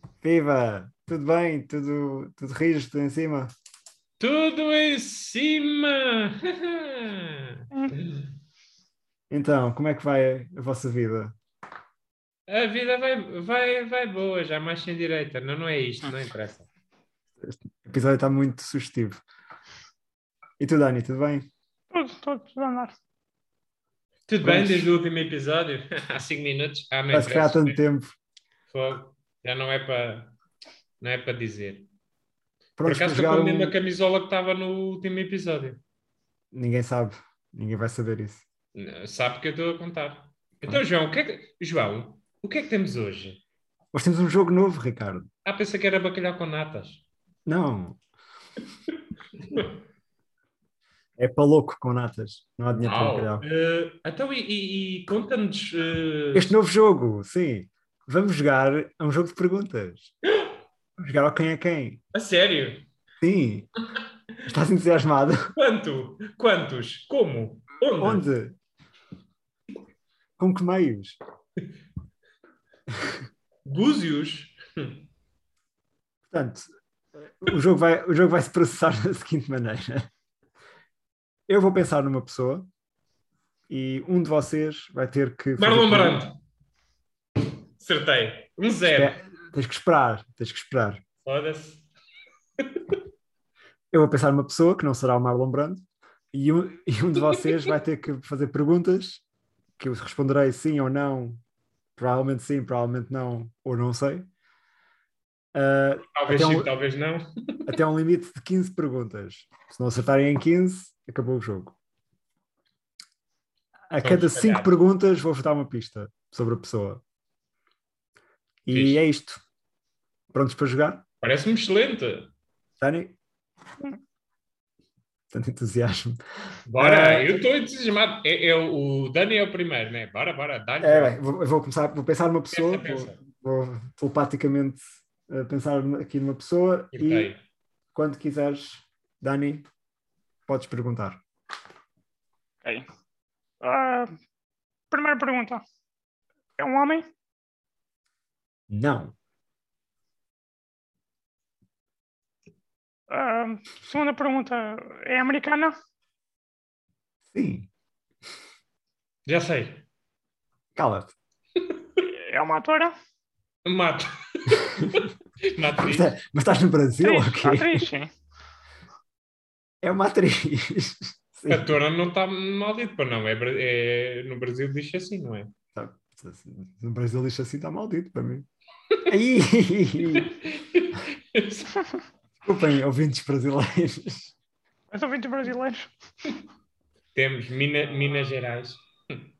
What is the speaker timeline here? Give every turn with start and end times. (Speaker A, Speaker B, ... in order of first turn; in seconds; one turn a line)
Speaker A: 0.2-3.5
Speaker B: 4.2-8.3
Speaker A: 9.3-11.3
Speaker B: 12.5-16.7
Speaker A: 17.4-19.2
Speaker A: 20.6-21.5
Speaker C: 21.9-22.9
Speaker B: 24.3-27.8
Speaker A: 24.4-24.9
Speaker A: 27.1-28.1
Speaker B: 28.7-30.3
Speaker B: 31.0-31.9
Speaker A: 32.8-33.8
Speaker B: 32.8-35.8
Speaker A: 36.5-38.5
Speaker B: 38.7-43.4
Speaker A: 43.9-45.3
Speaker B: 45.5-47.0
Speaker A: 47.5-48.0
Speaker A: 51.2-53.4
Speaker B: 52.8-56.5
Speaker A: 56.3-60.1
Speaker A: 61.0-62.0
Speaker B: 62.1-62.9
Speaker A: 63.2-63.7
Speaker A: 64.4-65.5
Speaker B: 65.5-68.2
Speaker A: 68.0-68.5
Speaker A: 70.4-71.2
Speaker B: 73.6-75.0
Speaker A: 76.3-80.1
Speaker A: 81.5-82.7
Speaker A: 83.7-86.2
Speaker B: 85.6-86.3
Speaker B: 87.8-89.2
Speaker A: 88.9-91.0
Speaker B: 91.2-91.9
Speaker B: 92.6-93.0
Speaker A: 93.9-99.2
Speaker A: 99.8-101.4
Speaker A: 102.0-104.3
Speaker A: 105.5-106.7
Speaker B: 106.1-107.8
Speaker A: 107.7-111.8
Speaker A: 113.9-117.0
Speaker B: 114.0-114.8
Speaker A: 118.7-119.4
Speaker B: 118.7-119.0
Speaker A: 120.3-121.0
Speaker B: 121.2-122.3
Speaker A: 122.8-123.2
Speaker A: 125.3-126.2
Speaker B: 126.7-131.2
Speaker A: 126.8-127.4
Speaker A: 130.8-137.3
Speaker B: 132.5-133.2
Speaker B: 136.9-137.4
Speaker A: 137.9-139.6
Speaker A: 140.5-141.2
Speaker C: 143.6-144.1
Speaker C: 144.9-145.6
Speaker C: 146.6-147.1
Speaker A: 148.7-149.1
Speaker C: 153.1-155.7
Speaker A: 157.3-157.7
Speaker B: 159.2-159.8
Speaker A: 160.7-161.1
Speaker C: 162.0-162.9
Speaker B: 163.6-166.1
Speaker A: 165.8-167.9
Speaker C: 167.0-168.1
Speaker A: 169.8-171.7
Speaker B: 171.5-175.5
Speaker A: 175.7-178.5
Speaker A: 179.1-180.3
Speaker B: 180.2-181.7
Speaker A: 182.4-184.3
Speaker C: 184.9-185.9
Speaker B: 187.1-189.2